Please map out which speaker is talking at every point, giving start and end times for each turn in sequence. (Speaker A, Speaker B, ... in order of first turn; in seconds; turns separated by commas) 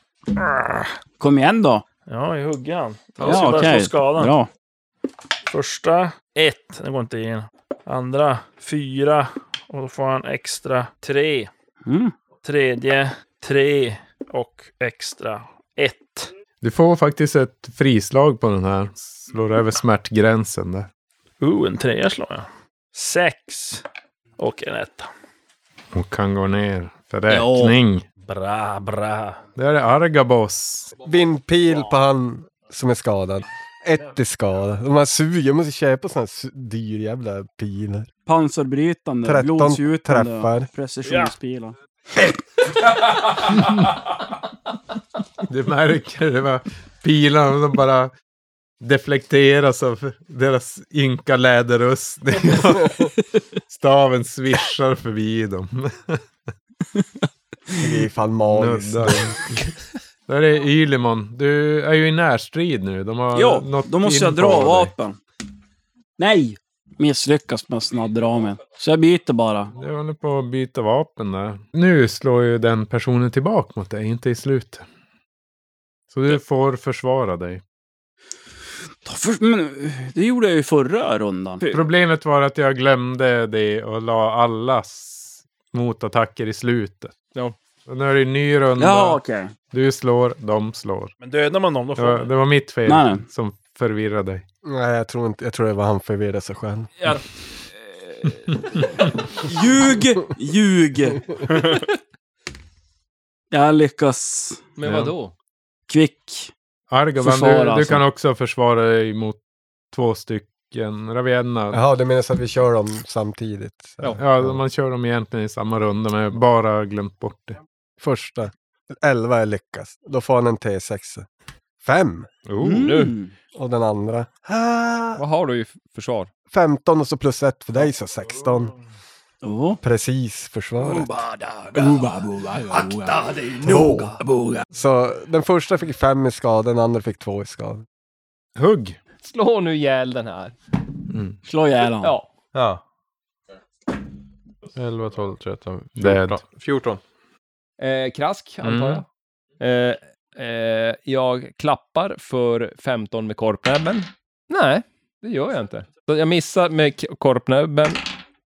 Speaker A: 0.3-0.9, Speaker B: 1.2-1.8, Speaker A: 2.1-4.3, Speaker C: 3.2-3.8, Speaker B: 3.2-4.5, Speaker A: 5.5-11.5, Speaker B: 11.8-12.1, Speaker A: 12.4-16.3, Speaker D: 16.6-20.9, Speaker A: 21.4-23.8, Speaker A: 24.4-25.1, Speaker D: 25.9-28.0, Speaker B: 27.3-27.8, Speaker A: 28.2-29.4, Speaker D: 29.6-30.9, Speaker E: 31.0-38.1, Speaker B: 38.2-41.7, Speaker E: 39.2-40.7, Speaker A: 41.0-41.3, Speaker D: 45.5-48.1, Speaker D: 48.8-53.1, Speaker D: 53.6-56.2, Speaker E: 57.7-59.4, Speaker D: 58.5-59.5, Speaker D: 60.3-64.9, Speaker B: 63.3-65.2, Speaker B: 66.2-69.7, Speaker D: 69.8-74.8, Speaker D: 76.1-77.6, Speaker B: 79.0-81.8, Speaker D: 81.7-87.1, Speaker D: 87.9-89.2, Speaker B: 88.8-89.5, Speaker D: 89.7-91.1, Speaker A: 91.2-92.3, Speaker D: 92.0-94.4, Speaker B: 92.8-93.2, Speaker E: 94.6-96.9, Speaker B: 99.3-101.3, Speaker B: 103.5-104.6, Speaker C: 104.8-105.3, Speaker D: 104.8-105.1, Speaker B: 105.9-106.5, Speaker D: 106.9-111.8, Speaker B: 107.2-108.0, Speaker E: 111.7-114.6, Speaker D: 114.2-117.6, Speaker E: 118.0-121.2, Speaker E: 121.8-122.3, Speaker D: 122.5-123.1, Speaker B: 122.6-123.3, Speaker E: 123.5-125.2, Speaker C: 125.2-126.3, Speaker E: 126.5-128.7, Speaker B: 129.4-129.8, Speaker E: 129.8-131.1, Speaker C: 130.8-134.2, Speaker B: 131.7-133.2, Speaker E: 133.6-134.2, Speaker B: 134.2-134.6, Speaker E: 134.7-137.8, Speaker D: 138.6-139.0, Speaker C: 139.2-140.6, Speaker D: 141.1-141.4, Speaker B: 141.4-142.1, Speaker C: 142.0-142.3, Speaker F: 142.5-142.8, Speaker F: 144.7-147.0, Speaker D: 146.0-146.4, Speaker C: 147.8-149.1, Speaker D: 148.6-149.0, Speaker C: 149.6-158.0